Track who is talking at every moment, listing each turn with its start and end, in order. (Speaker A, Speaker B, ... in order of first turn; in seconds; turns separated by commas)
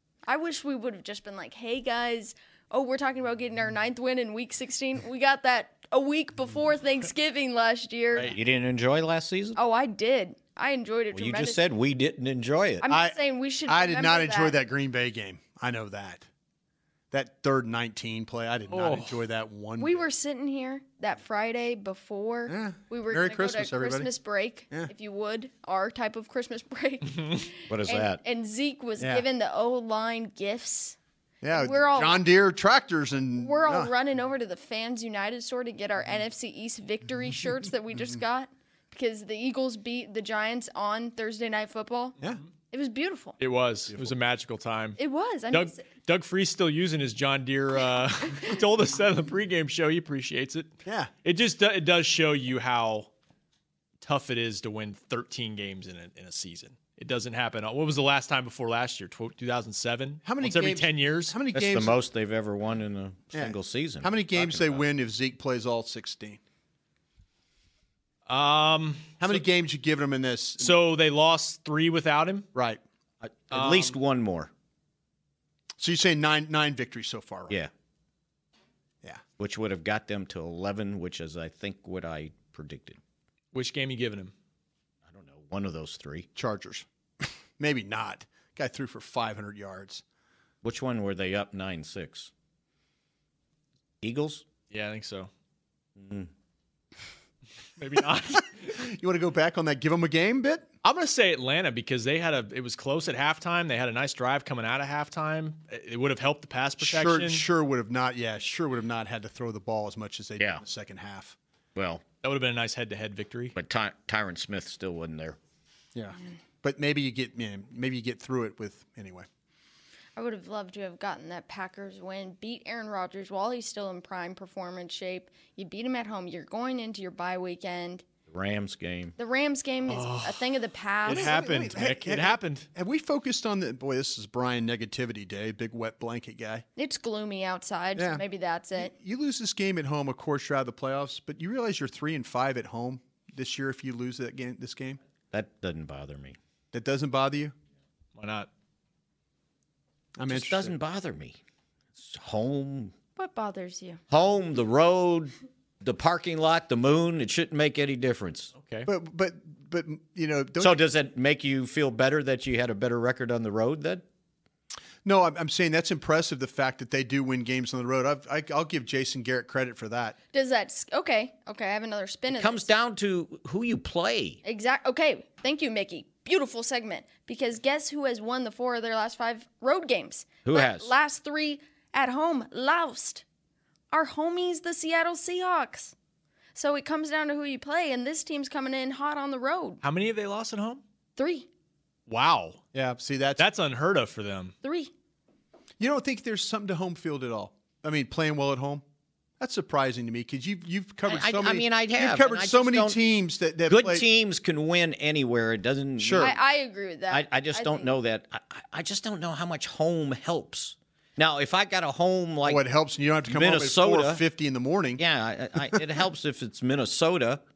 Speaker A: 0.2-8.3, Speaker B: 8.3-9.6, Speaker A: 9.6-11.6, Speaker B: 11.1-12.9, Speaker A: 12.8-14.6, Speaker C: 12.9-16.3, Speaker C: 17.1-20.0, Speaker D: 18.7-19.2, Speaker A: 19.8-31.0, Speaker C: 22.5-24.1, Speaker B: 27.7-28.2, Speaker C: 29.0-29.2, Speaker C: 31.4-33.9, Speaker A: 31.5-32.3, Speaker A: 33.4-42.2, Speaker A: 42.7-43.4, Speaker D: 43.4-45.0, Speaker A: 45.0-45.9, Speaker D: 45.5-50.7, Speaker C: 50.9-51.1, Speaker D: 51.2-53.1, Speaker D: 54.0-61.4, Speaker C: 60.2-62.0, Speaker B: 61.5-64.8, Speaker C: 63.3-66.4, Speaker D: 68.3-69.4, Speaker C: 69.2-70.7, Speaker D: 70.6-72.5, Speaker C: 72.5-72.8, Speaker B: 73.2-74.5, Speaker D: 73.5-74.0, Speaker C: 75.8-77.6, Speaker B: 79.4-83.0, Speaker D: 83.5-84.3, Speaker B: 85.1-86.3, Speaker C: 86.4-90.0, Speaker B: 90.6-92.3, Speaker B: 94.0-94.4, Speaker D: 94.7-95.3, Speaker B: 96.0-96.3, Speaker D: 97.8-98.7, Speaker C: 98.6-100.7, Speaker D: 100.8-107.5, Speaker C: 106.8-111.4, Speaker B: 111.8-112.0, Speaker D: 112.2-113.5, Speaker B: 113.5-115.4, Speaker C: 115.9-119.3, Speaker A: 120.2-128.0, Speaker B: 128.3-129.1, Speaker A: 129.2-131.4, Speaker D: 129.9-130.4, Speaker D: 131.0-132.7, Speaker C: 131.1-136.6, Speaker A: 136.8-138.9, Speaker C: 138.0-138.2, Speaker C: 138.8-145.0, Speaker B: 145.3-146.4, Speaker C: 146.7-147.6, Speaker D: 148.2-148.5, Speaker C: 150.2-150.8, Speaker B: 150.3-151.4, Speaker B: 152.0-152.9, Speaker A: 153.2-154.0, Speaker B: 154.1-158.5, Speaker D: 158.6-158.9, Speaker C: 158.9-160.8, Speaker B: 160.6-164.0, Speaker C: 165.0-170.2, Speaker A: 170.3-172.7, Speaker B: 172.3-174.4, Speaker A: 174.4-183.2, Speaker B: 180.4-180.9, Speaker A: 183.9-185.9, Speaker A: 186.6-189.8, Speaker D: 189.8-190.8, Speaker A: 191.2-191.5, Speaker D: 192.1-192.6, Speaker C: 192.7-193.4, Speaker D: 193.4-194.5, Speaker A: 194.6-194.9, Speaker C: 195.8-198.8, Speaker C: 199.4-204.1, Speaker B: 201.1-203.0, Speaker B: 203.7-206.4, Speaker C: 206.0-206.3, Speaker A: 206.2-207.9, Speaker B: 207.1-212.6, Speaker C: 212.5-215.0, Speaker B: 213.3-214.2, Speaker B: 215.0-217.4, Speaker C: 215.6-216.0